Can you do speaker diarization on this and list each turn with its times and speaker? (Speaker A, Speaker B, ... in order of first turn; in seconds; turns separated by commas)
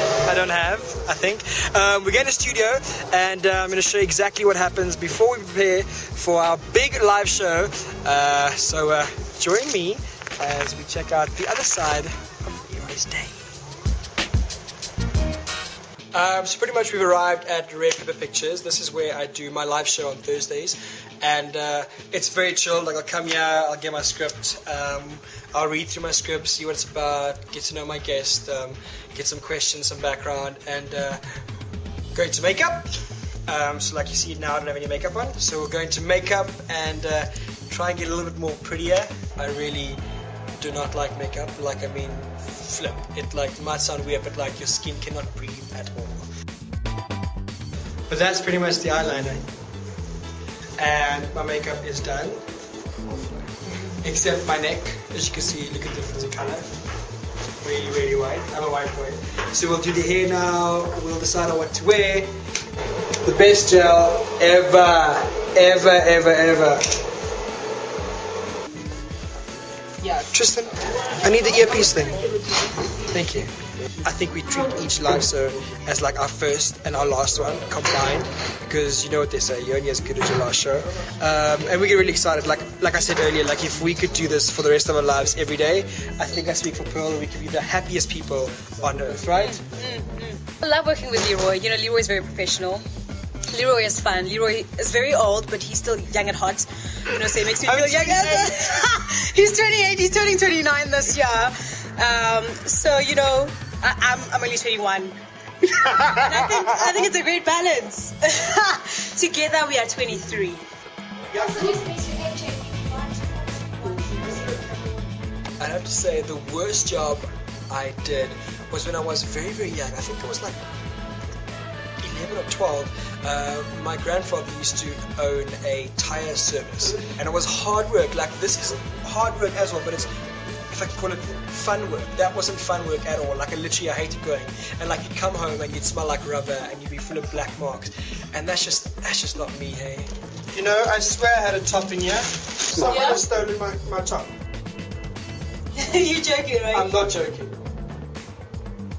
Speaker A: 0.2-13.4, Speaker A: 16.1-31.2, Speaker A: 32.1-40.0, Speaker A: 40.6-46.3, Speaker A: 48.1-49.5, Speaker A: 50.8-52.4, Speaker A: 54.0-56.7, Speaker A: 57.6-62.3, Speaker A: 63.2-66.8, Speaker B: 70.0-70.3, Speaker A: 70.3-72.2, Speaker A: 73.1-73.5, Speaker A: 74.0-89.6, Speaker B: 89.4-92.8, Speaker B: 93.5-110.7, Speaker A: 97.5-98.8, Speaker A: 111.3-111.6, Speaker B: 111.3-114.7, Speaker A: 115.6-120.6, Speaker A: 122.0-130.1, Speaker A: 130.7-144.3, Speaker B: 142.9-143.2, Speaker B: 145.7-146.9, Speaker A: 146.7-147.6